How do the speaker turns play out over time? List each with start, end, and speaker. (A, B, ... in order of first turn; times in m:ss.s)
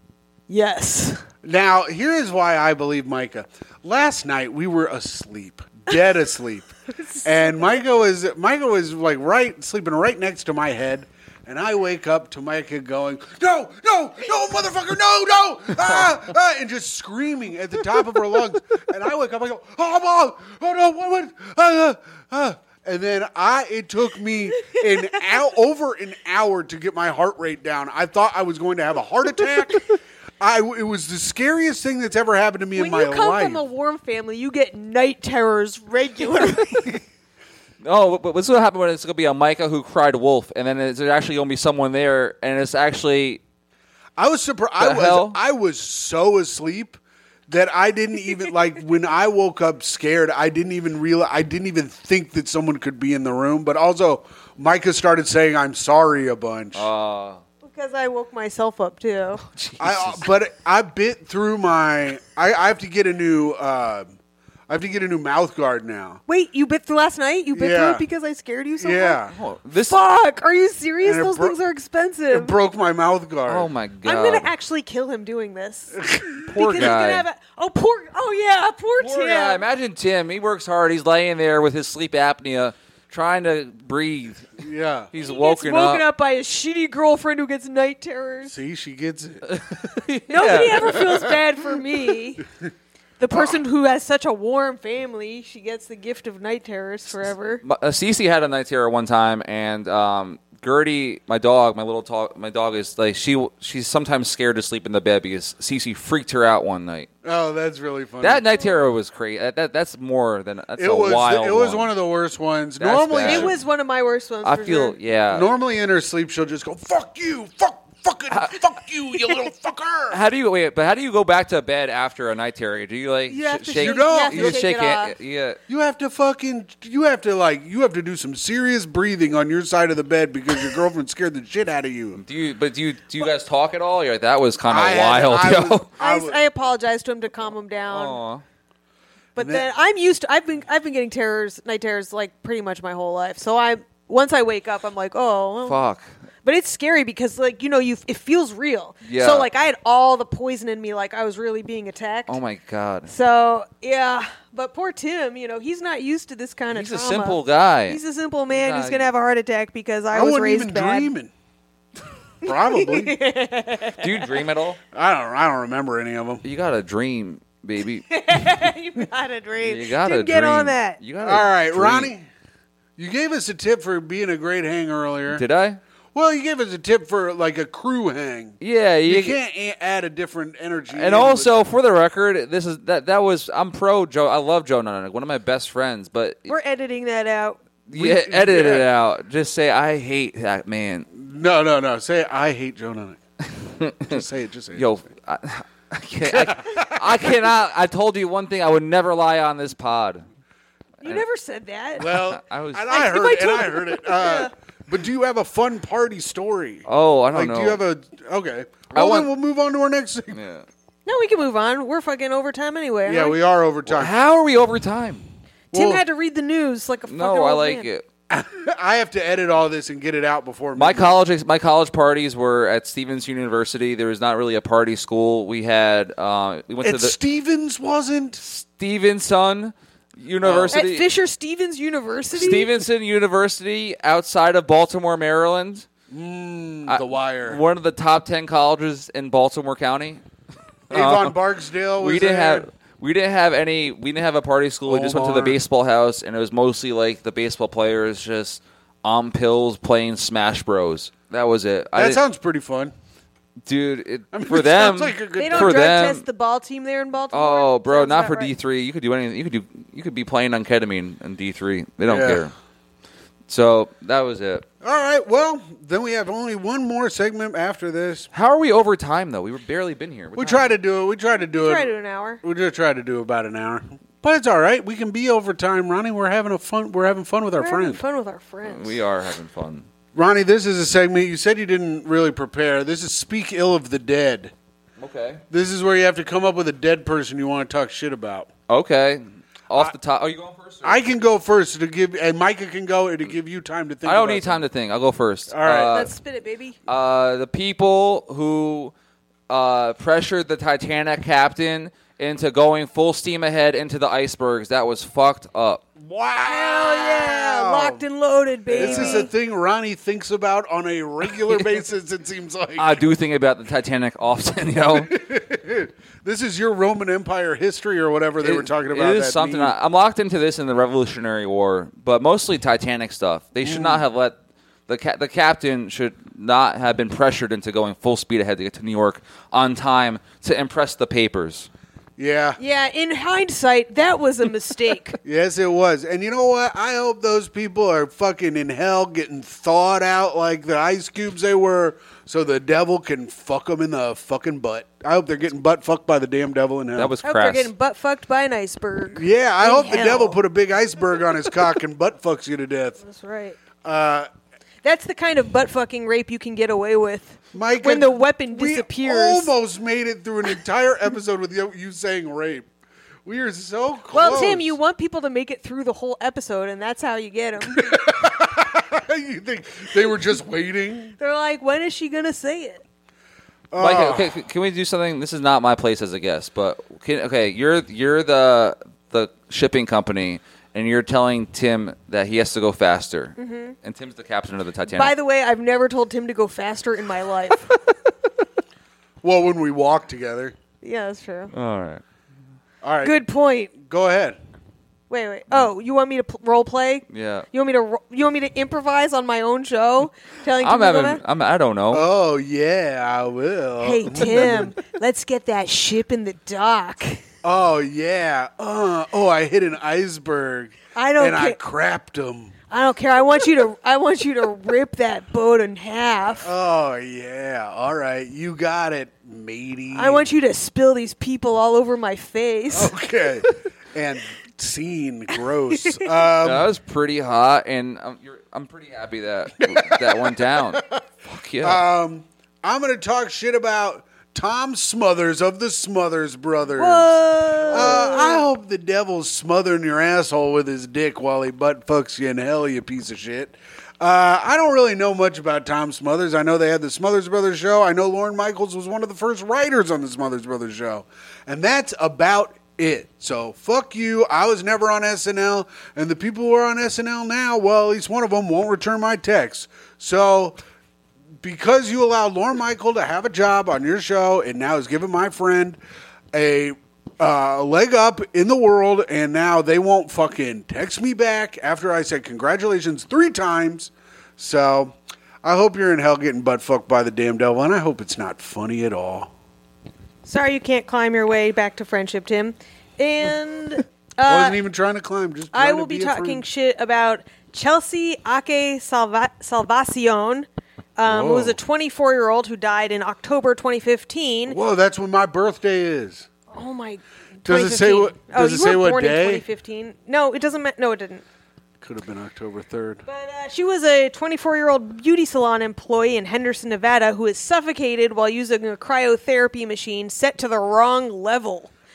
0:00.5-0:01.2 A
0:01.4-0:06.7 B
0:07.0-0:07.6 A
0:07.2-0:29.9 B
0:30.4-0:33.6 B
0:32.7-0:37.0 A
0:37.8-0:43.4 C
0:44.2-0:56.9 B
0:44.8-0:45.4 C
0:56.7-0:57.4 C
0:57.6-0:59.4 A
0:59.4-1:00.2 C
0:59.8-1:04.1 B
1:04.7-1:06.2 B
1:06.3-1:09.2 A
1:07.5-1:08.0 B
1:08.8-1:09.3 B
1:09.3-1:10.0 C
1:09.9-1:12.5 A
1:11.0-1:11.6 B
1:12.3-1:13.7 B
1:13.4-1:14.5 C
1:14.0-1:16.0 A
1:16.0-1:16.4 B
1:16.5-1:17.2 C
1:16.5-1:19.6 A
1:19.0-1:24.6 C
1:24.6-1:25.1 B
1:25.1-1:26.0 C
1:25.2-1:28.5 A
1:28.5-1:29.5 B
1:29.5-1:31.2 C
1:30.3-1:32.4 A
1:33.2-1:37.6 A
1:37.6-1:47.1 C
1:47.2-1:48.4 B
1:48.2-1:51.9 C
1:50.8-1:53.6 B
1:52.8-1:53.5 C
1:53.2-1:55.0 A
1:54.4-1:55.5 C
1:55.3-2:00.2 B
1:58.3-1:58.6 C
2:00.1-2:05.6 C
2:03.3-2:05.1 A
2:03.7-2:04.6 B
2:05.7-2:12.2 B
2:12.2-2:15.9 C
2:14.7-2:16.4 B
2:16.0-2:18.2 A
2:17.9-2:18.4 C
2:19.4-2:25.8 A
2:19.4-2:19.7 B
2:25.6-2:26.0 C
2:26.4-2:32.4 A
2:29.0-2:29.4 C
2:32.3-2:33.1 C
2:33.1-2:41.1 A
2:36.7-2:38.0 C
2:38.5-2:39.1 C
2:40.1-2:41.3 B
2:42.4-2:43.2 B
2:42.4-2:44.4 A
2:44.0-2:44.8 C
2:44.9-2:46.4 B
2:46.4-2:48.5 C
2:48.1-2:51.0 A
2:49.6-2:52.1 C
2:51.2-2:52.2 B
2:53.0-2:55.4 B
2:55.3-2:55.8 C
2:56.1-2:58.6 B
2:58.6-2:59.4 C
2:59.1-3:01.7 B
3:00.9-3:06.5 C
3:06.5-3:07.6 A
3:07.9-3:11.1 C
3:08.0-3:08.9 B
3:11.1-3:13.2 B
3:13.6-3:20.2 C
3:14.0-3:14.9 B
3:16.2-3:17.2 B
3:21.0-3:22.2 A
3:22.0-3:30.4 B
3:22.1-3:22.9 C
3:22.9-3:24.5 A
3:26.8-3:27.8 C
3:28.9-3:29.3 C
3:30.3-3:30.6 C
3:31.0-3:33.4 A
3:33.0-3:34.1 B
3:33.8-3:35.2 C
3:35.7-3:36.0 B
3:35.7-3:37.9 A
3:37.1-3:38.0 C
3:38.3-3:41.1 B
3:40.8-3:47.2 C
3:46.8-3:48.4 B
3:48.4-3:51.0 C
3:50.4-3:50.8 B
3:50.7-3:52.7 A
3:52.3-3:55.8 C
3:56.1-3:57.6 B
3:56.9-4:00.2 C
4:00.9-4:01.4 C
4:00.9-4:02.6 B
4:02.0-4:12.2 C
4:04.8-4:05.6 B
4:11.9-4:12.9 B
4:13.6-4:16.2 C
4:14.3-4:15.9 B
4:15.4-4:18.5 A
4:17.3-4:22.5 C
4:22.0-4:22.4 B
4:23.5-4:24.6 C
4:24.8-4:28.3 B
4:28.3-4:30.7 C
4:30.4-4:38.0 B
4:31.5-4:32.4 A
4:37.6-4:39.0 A
4:38.6-4:39.8 C
4:40.1-4:44.5 B
4:45.0-4:45.4 C
4:45.5-4:48.5 B
4:48.7-4:51.0 C
4:50.8-4:54.7 B
4:54.0-4:56.1 C
4:55.5-4:56.0 B
4:55.9-4:56.8 A
4:56.9-4:58.9 C
4:59.5-5:05.8 C
5:06.0-5:08.0 B
5:06.4-5:09.3 A
5:08.7-5:13.0 B
5:08.8-5:09.3 C
5:12.8-5:15.1 C
5:14.9-5:19.7 B
5:18.4-5:24.4 C
5:23.6-5:24.0 B
5:24.9-5:31.7 C
5:32.2-5:32.6 B
5:32.6-5:35.2 A
5:35.2-5:47.1 B
5:47.0-5:47.7 C
5:47.2-5:50.4 A
5:49.1-5:53.0 B
5:53.0-5:53.6 A
5:53.8-5:54.3 B
5:54.8-5:59.5 A
5:57.5-6:02.7 B
6:03.2-6:04.8 B
6:04.1-6:08.0 A
6:07.7-6:11.1 B
6:11.2-6:12.8 A
6:13.7-6:14.4 B
6:13.8-6:25.1 C
6:23.4-6:23.7 A
6:24.9-6:27.7 A
6:29.2-6:30.6 B
6:30.8-6:31.5 A
6:31.5-6:32.0 C
6:32.8-6:33.2 B
6:33.0-6:33.7 A
6:33.7-6:34.4 B
6:35.1-6:41.2 A
6:37.1-6:37.5 C
6:40.6-6:42.1 C
6:41.9-6:44.7 B
6:43.8-6:47.2 A
6:47.4-6:52.5 B
6:50.9-6:51.6 A
6:52.7-6:56.5 A
6:56.4-7:00.2 B
6:59.9-7:02.9 A
7:02.7-7:06.7 B
7:05.7-7:06.1 A
7:06.4-7:11.8 C
7:09.6-7:11.0 B
7:11.6-7:40.6 B
7:16.8-7:18.4 A
7:41.4-7:45.8 B
7:46.3-7:59.3 B
8:00.2-8:04.6 A
8:04.2-8:06.4 B
8:05.5-8:14.6 A
8:11.1-8:11.6 B
8:14.5-8:16.3 B
8:16.5-8:21.2 A
8:17.4-8:19.4 B
8:21.8-8:23.0 B
8:23.1-8:31.7 A